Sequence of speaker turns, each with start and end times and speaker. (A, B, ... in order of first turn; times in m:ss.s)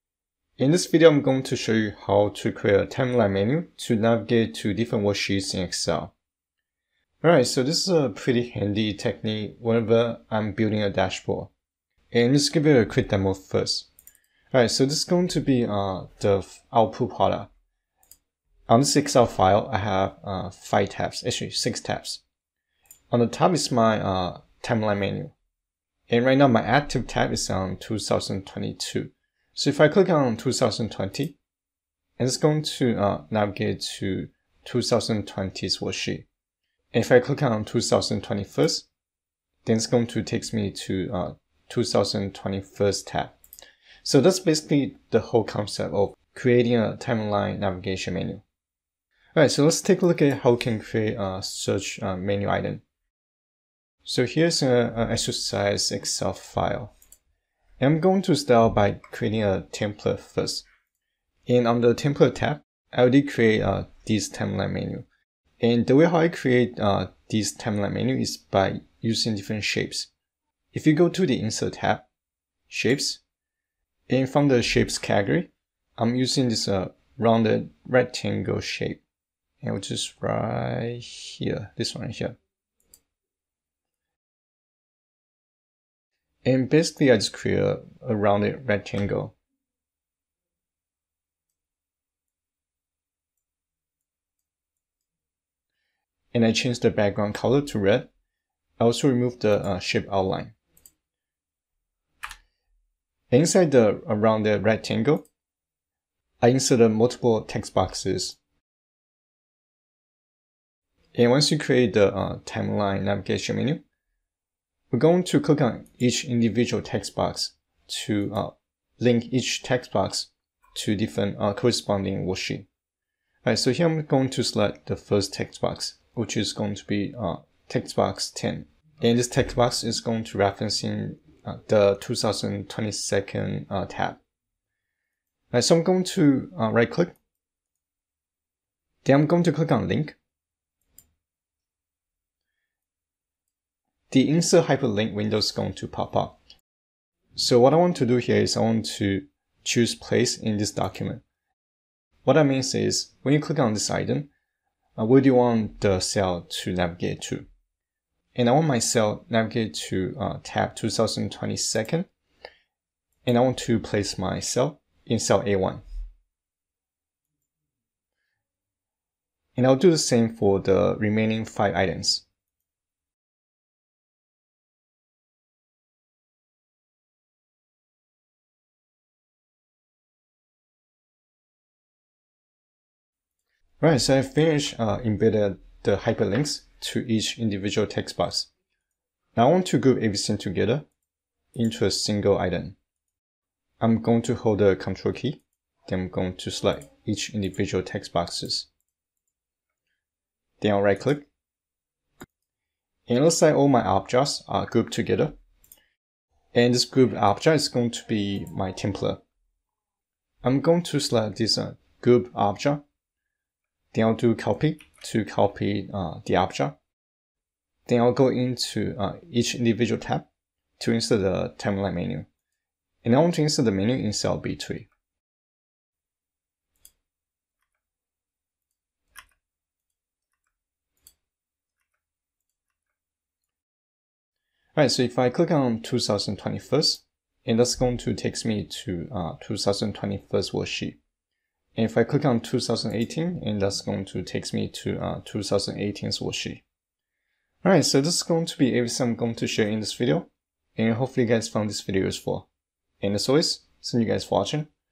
0:00.6-0:06.1 A
0:07.2-0:11.5 A
0:12.1-0:13.9 A
0:14.5-0:17.5 A
0:18.7-0:22.2 A
0:23.1-0:25.3 A
0:26.1-0:31.4 A
0:32.2-0:36.3 A
0:36.9-0:38.9 A
0:39.6-0:43.4 A
0:44.0-0:48.4 A
0:49.4-0:52.8 A
0:54.0-0:56.9 A
0:57.8-1:00.7 A
1:01.5-1:05.1 A
1:05.6-1:10.1 A
1:10.7-1:12.1 A
1:12.7-1:13.2 A
1:14.1-1:19.0 A
1:19.6-1:22.4 A
1:26.4-1:29.4 A
1:36.3-1:38.1 A
1:38.8-1:40.6 A
1:43.3-1:45.3 A
1:46.4-1:48.4 A
1:51.2-1:53.8 A
1:54.9-2:02.7 A
2:03.4-2:14.2 A
2:15.5-2:17.2 A
2:19.0-2:20.2 A
2:24.1-2:26.4 A
2:27.4-2:31.2 A
2:32.2-2:34.3 A
2:35.0-2:37.5 A
2:38.4-2:42.1 A
2:43.2-2:45.8 A
2:49.6-2:52.2 A
3:03.8-3:08.5 A
3:09.4-3:10.9 A
3:11.6-3:12.8 A
3:13.8-3:18.7 A
3:20.6-3:21.3 A
3:23.1-3:25.4 A
3:26.5-3:29.2 A
3:30.4-3:32.8 A
3:33.9-3:36.8 A
3:37.9-3:40.3 A
3:40.8-3:42.3 A
3:43.0-3:44.9 A
3:54.8-4:01.0 A
4:01.8-4:06.6 A
4:07.6-4:12.5 A
4:13.0-4:14.7 A